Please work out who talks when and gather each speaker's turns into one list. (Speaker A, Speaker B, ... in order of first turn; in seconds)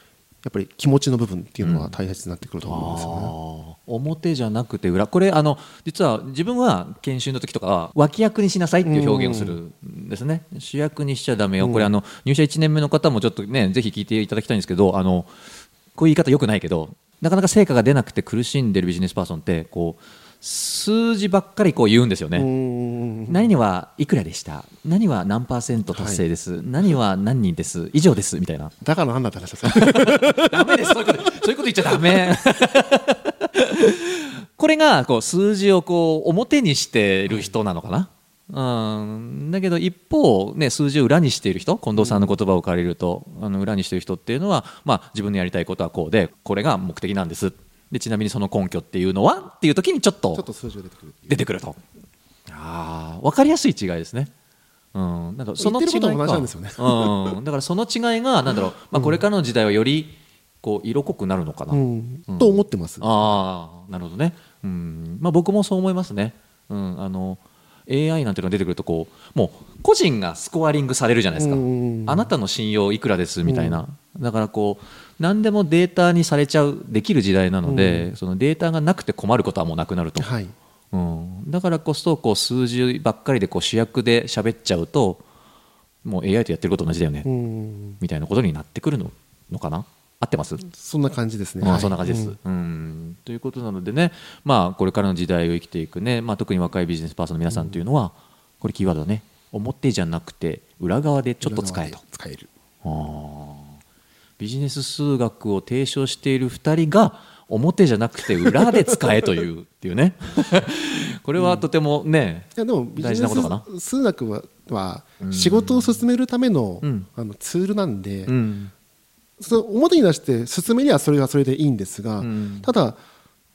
Speaker A: 0.4-3.3, 8.8-9.6, 11.6-11.9, 22.3-23.5, 25.9-26.2, 28.8-31.3, 42.0-42.4, 50.3-51.5, 55.6-57.4, 61.7-63.3, 71.3-72.3, 73.5-73.8, 77.7-78.1, 80.2-80.5, 87.2-88.0, 90.7-92.4, 97.5-97.8, 101.4-102.5, 111.4-111.6, 112.5-118.3, 119.4-123.0
Speaker B: 1.6-1.9, 2.6-15.3, 15.9-22.5, 23.3-28.7, 29.7-50.5, 51.3-51.8, 52.5-54.3, 54.9-80.3, 80.9-85.2, 86.0-87.3, 88.0-90.6, 91.6-102.0, 102.8-103.8, 104.4-113.6, 115.2-115.9, 118.3-118.7, 122.2-122.7